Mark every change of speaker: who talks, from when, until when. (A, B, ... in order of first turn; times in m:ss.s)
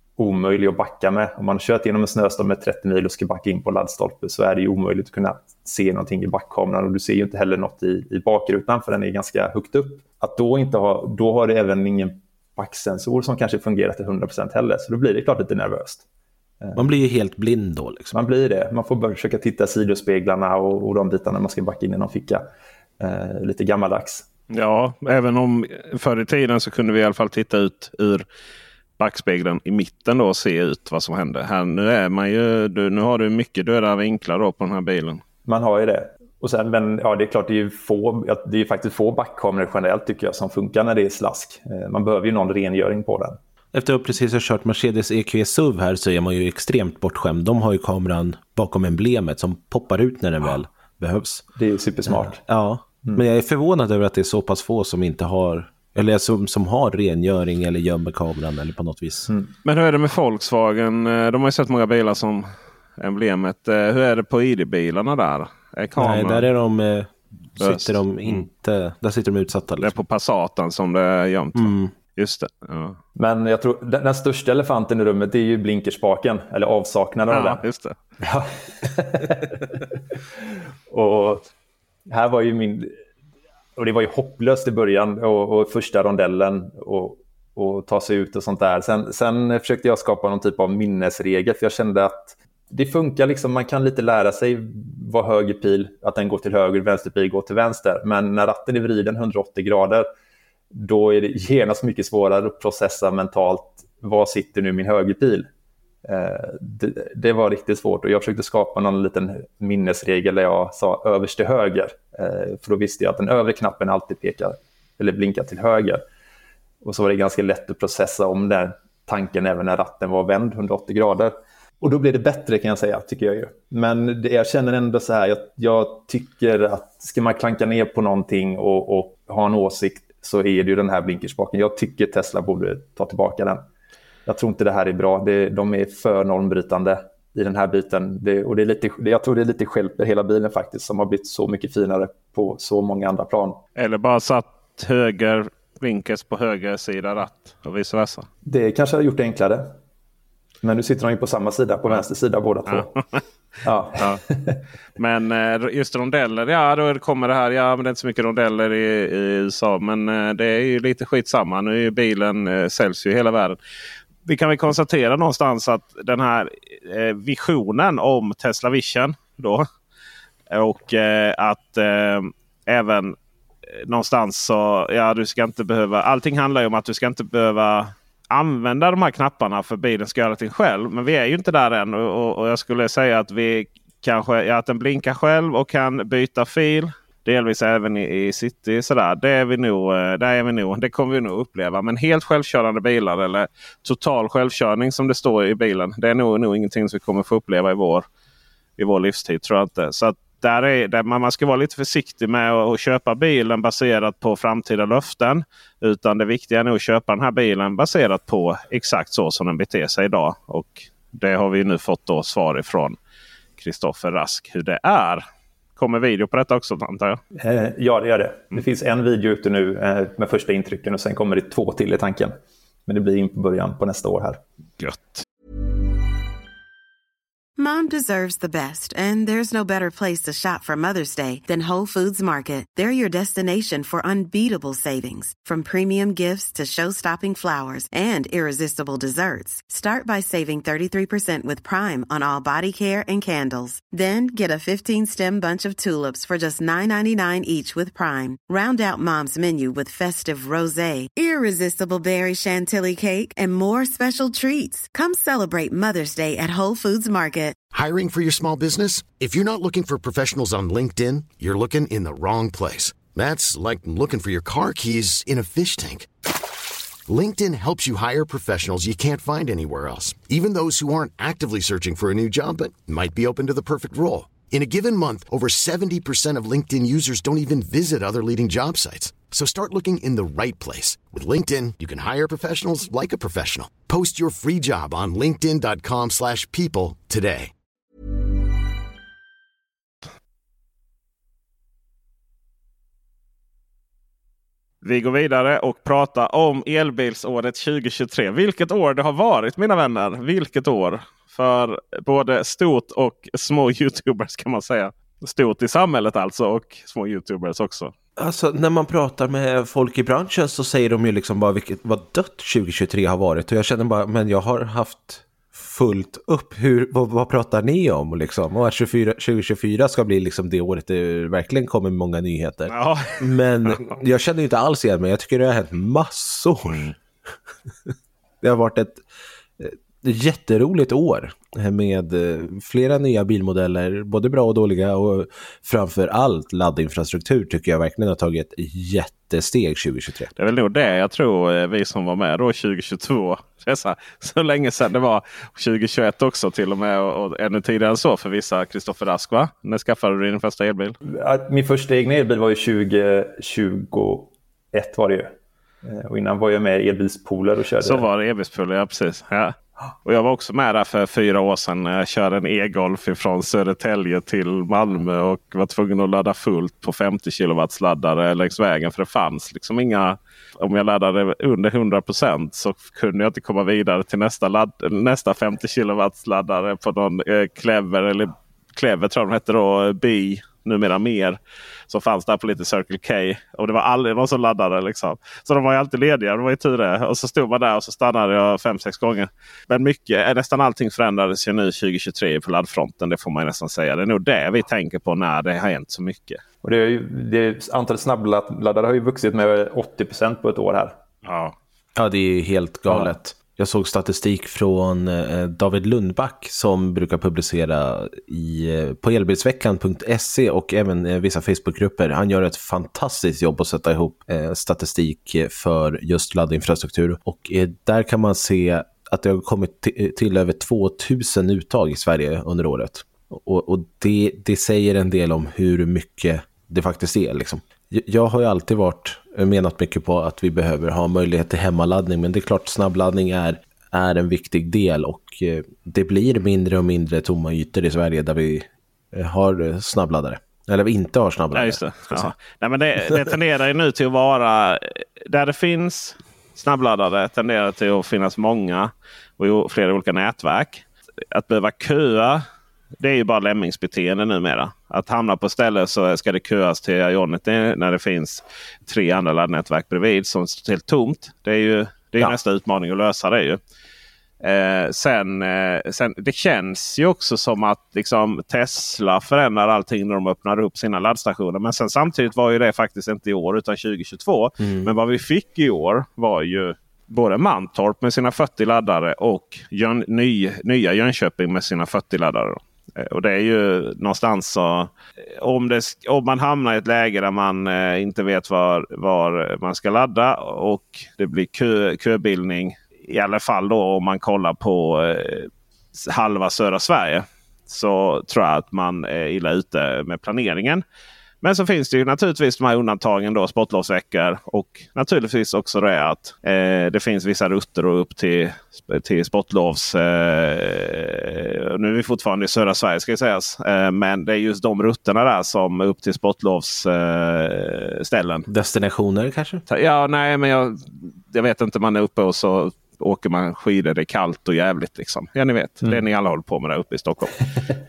0:00.2-0:16.0 A
0:16.8-0:18.1 B
0:18.1-0:22.4 A
0:23.0-0:24.2 A
0:24.5-0:28.2 C
0:29.0-0:35.2 C
0:35.5-0:43.4 A
0:43.7-0:51.4 B
0:51.6-0:52.4 A
0:52.1-0:59.3 B
0:59.6-1:02.5 C
1:03.0-1:06.5 C
1:06.0-1:09.9 B
1:07.6-1:08.5 C
1:09.8-1:13.0 C
1:11.6-1:11.9 B
1:13.2-1:17.6 A
1:17.3-1:18.0 C
1:18.2-1:19.8 A
1:20.9-1:21.5 A
1:22.1-1:22.9 A
1:23.8-1:40.1 A
1:40.7-1:45.5 A
1:46.0-1:56.0 A
1:56.8-2:13.6 A
2:14.3-2:23.6 A
2:23.8-2:28.3 C
2:28.4-2:29.7 A
2:30.6-2:32.9 A
2:32.7-2:33.2 C
2:33.6-2:34.6 A
2:35.0-2:43.6 C
2:44.2-2:49.6 C
2:50.5-2:53.2 C
2:53.8-3:18.1 C
3:18.8-3:33.0 C
3:33.6-3:35.2 C
3:35.8-3:37.2 C
3:37.4-3:42.3 A
3:42.9-3:44.4 A
3:44.8-3:45.2 C
3:47.6-4:17.6 D
4:17.7-4:26.1 E
4:27.1-4:47.5 E
4:54.8-5:07.9 C
5:08.2-5:26.9 B
5:22.7-5:23.8 C
5:27.9-5:29.0 B
5:29.6-5:40.3 B
5:40.4-5:51.0 C
5:51.1-5:55.3 A
5:55.8-5:58.0 A
5:57.8-6:36.4 C
6:36.6-6:41.0 A
6:41.2-6:41.6 C
6:42.0-7:22.3 B
7:21.5-7:32.4 C
7:33.0-7:43.6 C
7:44.4-8:20.8 C
7:54.6-7:54.9 B
8:21.4-8:38.5 C
8:38.5-8:39.6 B
8:39.7-8:47.5 C